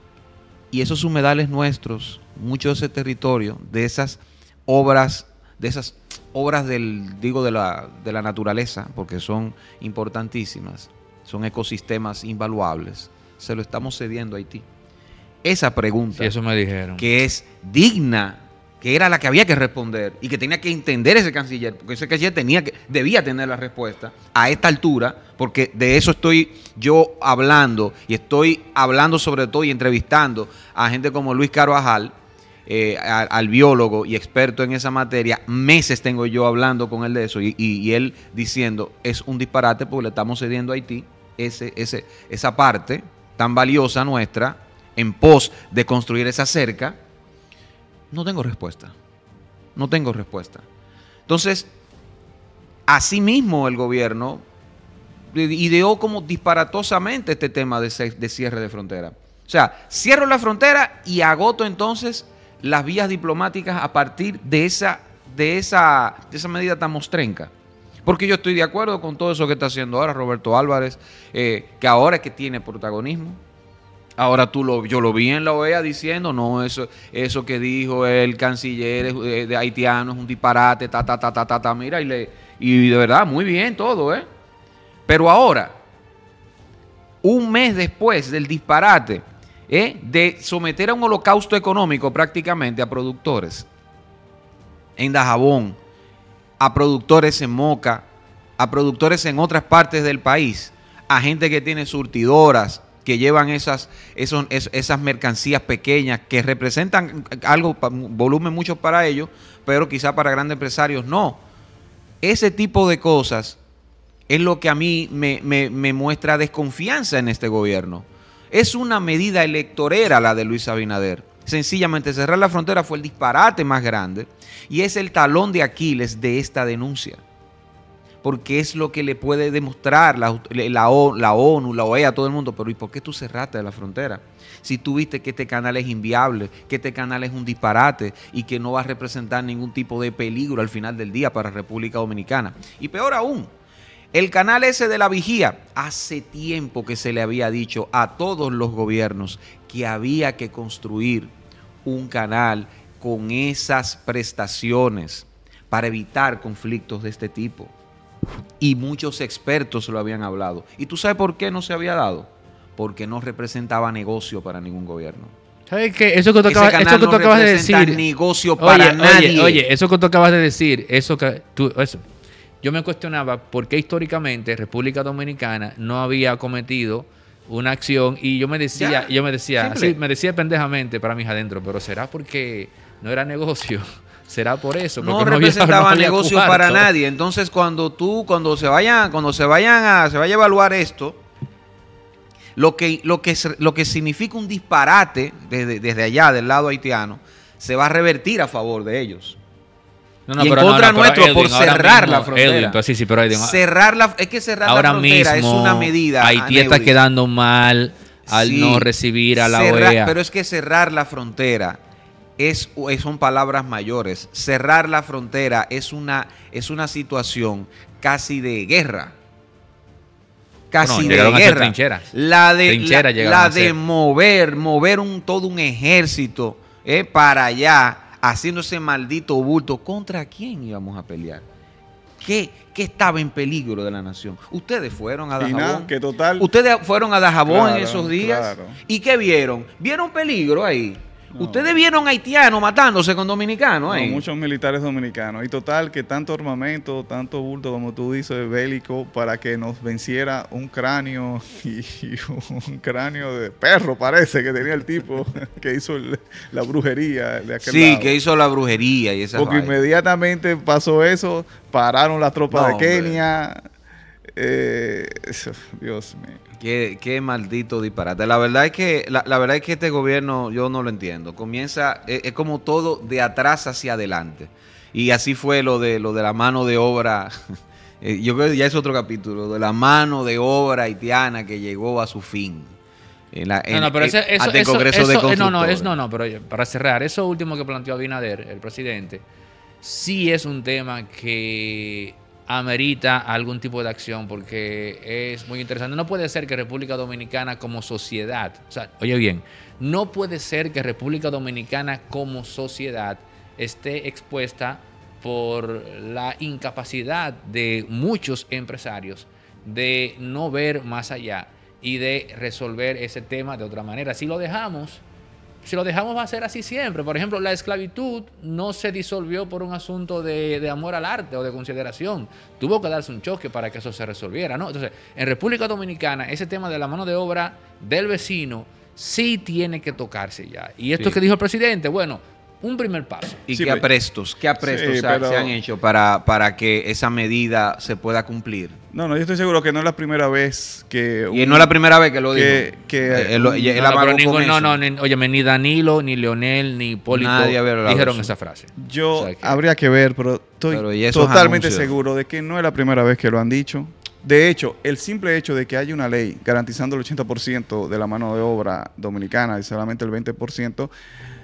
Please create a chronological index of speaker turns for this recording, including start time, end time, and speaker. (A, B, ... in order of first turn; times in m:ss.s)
0:00.7-0:14.6 A
0:15.4-0:16.3 A
0:16.2-0:17.1 B
0:17.0-0:32.1 A
0:32.7-0:47.0 A
0:48.1-0:48.9 A
0:49.8-0:50.6 A
0:51.3-0:51.7 A
0:52.9-0:54.4 A
0:55.3-1:07.5 A
1:08.0-1:13.4 A
1:14.2-1:24.2 A
1:25.1-1:25.8 A
1:27.2-1:33.7 A
1:35.0-1:35.8 A
1:36.6-1:38.0 A
1:38.6-1:51.4 A
1:52.2-1:53.6 A
1:54.3-2:07.2 A
2:08.2-2:23.5 A
2:24.1-2:31.3 A
2:31.8-2:37.7 A
2:38.6-2:45.3 A
2:45.7-2:48.0 B
2:46.5-2:49.6 A
2:48.6-2:52.0 B
2:52.6-3:06.9 B
2:58.8-3:00.0 A
3:05.0-3:11.2 A
3:12.6-3:19.4 A
3:20.3-3:23.6 B
3:20.4-3:22.8 A
3:23.3-3:27.0 A
3:24.6-3:30.2 B
3:28.3-3:31.8 A
3:32.4-3:39.1 A
3:40.7-3:51.4 A
3:40.8-3:42.1 B
3:42.6-3:43.8 B
3:52.2-4:04.2 A
3:55.4-3:56.5 C
3:57.4-3:58.8 C
4:01.3-4:01.8 C
4:03.9-4:18.2 C
4:17.6-4:19.8 A
4:19.3-4:23.6 C
4:22.5-4:23.2 A
4:24.4-4:26.4 C
4:26.6-4:37.3 A
4:38.0-4:42.7 A
4:43.3-4:45.9 A
4:43.7-4:49.2 B
4:49.8-5:15.0 B
5:15.6-5:33.4 B
5:33.5-5:38.8 A
5:33.5-5:33.8 C
5:34.6-5:35.6 C
5:38.9-5:41.7 C
5:41.3-5:44.8 A
5:42.3-5:43.8 C
5:43.8-5:49.6 B
5:47.1-5:48.3 A
5:48.8-6:00.9 C
5:50.7-5:51.9 A